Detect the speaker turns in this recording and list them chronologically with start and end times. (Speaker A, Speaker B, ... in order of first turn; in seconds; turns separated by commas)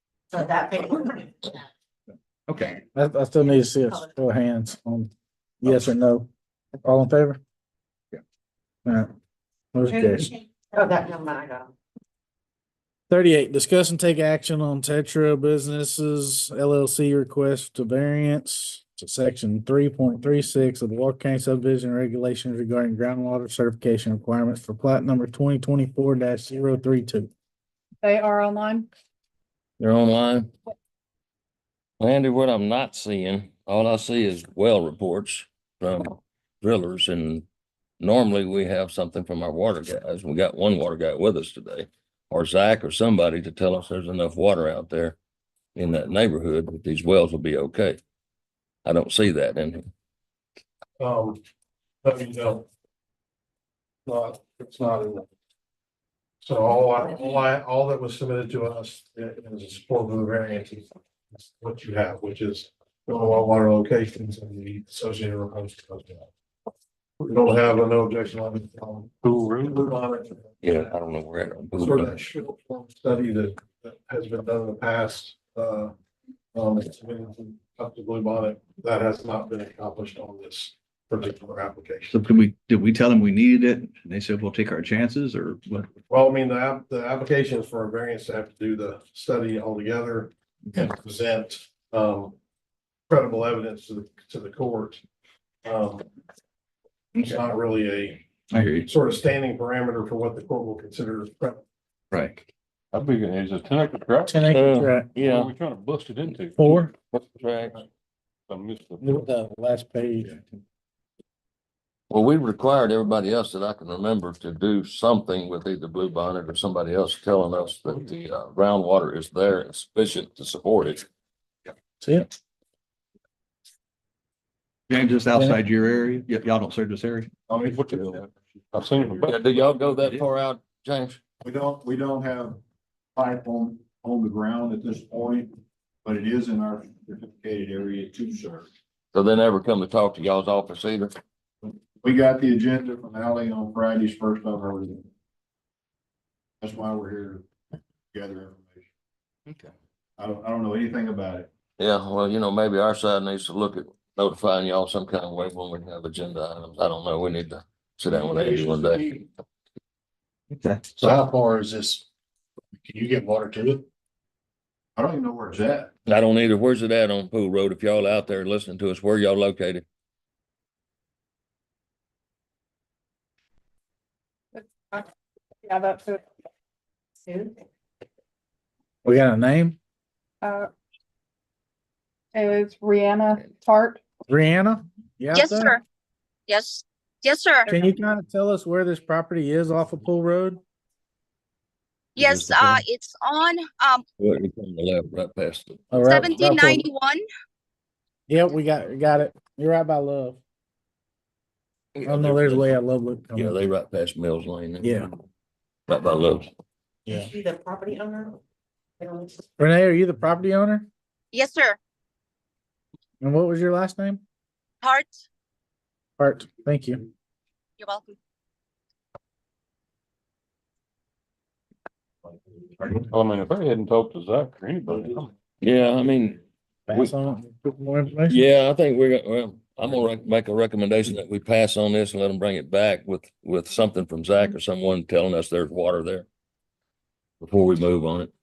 Speaker A: 0.3-1.7, Speaker B: 2.5-2.8, Speaker C: 2.9-5.1, Speaker A: 3.4-4.1, Speaker C: 5.6-6.3, Speaker C: 6.8-7.4, Speaker C: 8.8-9.1, Speaker C: 9.7-10.3, Speaker A: 9.9-11.7, Speaker C: 13.1-27.3, Speaker D: 28.0-28.9, Speaker E: 29.8-30.5, Speaker E: 32.0-37.4, Speaker E: 38.0-45.2, Speaker E: 45.7-48.0, Speaker E: 48.8-49.9, Speaker F: 51.0-51.4, Speaker F: 52.0-52.7, Speaker F: 54.0-55.3, Speaker F: 56.4-60.9, Speaker F: 61.4-66.3, Speaker F: 67.2-69.1, Speaker G: 69.2-70.1, Speaker F: 69.7-70.4, Speaker E: 70.6-72.2, Speaker F: 71.8-75.9, Speaker F: 76.5-82.1, Speaker B: 82.1-85.9, Speaker F: 86.1-92.3, Speaker F: 93.1-95.0, Speaker F: 95.6-96.1, Speaker F: 97.2-98.2, Speaker B: 98.5-98.9, Speaker F: 98.8-101.6, Speaker B: 102.1-102.5, Speaker G: 102.9-106.7, Speaker C: 104.3-105.1, Speaker E: 104.4-105.5, Speaker C: 106.5-106.9, Speaker E: 107.1-107.8, Speaker G: 108.5-109.2, Speaker C: 109.0-110.4, Speaker E: 112.1-121.0, Speaker C: 122.0-122.3, Speaker B: 124.9-127.3, Speaker C: 125.3-125.6, Speaker H: 127.5-129.5, Speaker G: 127.6-128.1, Speaker G: 128.7-129.3, Speaker E: 129.2-131.2, Speaker H: 131.4-132.6, Speaker H: 133.2-138.7, Speaker E: 139.1-141.1, Speaker H: 141.6-145.1, Speaker H: 146.6-147.4, Speaker H: 148.1-148.9, Speaker H: 150.2-151.5, Speaker E: 151.8-159.1, Speaker H: 158.3-159.2, Speaker B: 160.5-160.8, Speaker F: 161.0-162.0, Speaker F: 162.8-163.8, Speaker H: 164.9-165.9, Speaker E: 166.1-169.8, Speaker D: 174.5-175.0, Speaker D: 175.6-176.2, Speaker A: 177.2-177.6, Speaker C: 179.0-179.8, Speaker D: 180.4-180.7, Speaker D: 182.3-184.0, Speaker C: 184.3-185.8, Speaker I: 185.3-185.8, Speaker I: 186.5-187.7, Speaker C: 187.7-190.6, Speaker E: 192.2-192.8, Speaker I: 192.2-194.0, Speaker E: 194.2-196.1, Speaker C: 195.9-196.9, Speaker I: 196.0-197.2, Speaker C: 198.3-200.4, Speaker E: 201.9-202.7, Speaker C: 202.0-203.6, Speaker E: 203.3-205.1, Speaker C: 204.8-205.1, Speaker E: 205.9-206.5, Speaker A: 207.1-208.4, Speaker A: 209.0-209.5, Speaker C: 209.6-210.9, Speaker I: 211.3-211.8, Speaker C: 213.2-214.2, Speaker I: 214.8-215.1, Speaker C: 216.2-217.0, Speaker I: 217.8-218.2, Speaker G: 222.9-225.3, Speaker E: 225.6-227.1, Speaker C: 226.9-228.4, Speaker E: 228.3-236.2, Speaker E: 237.4-238.3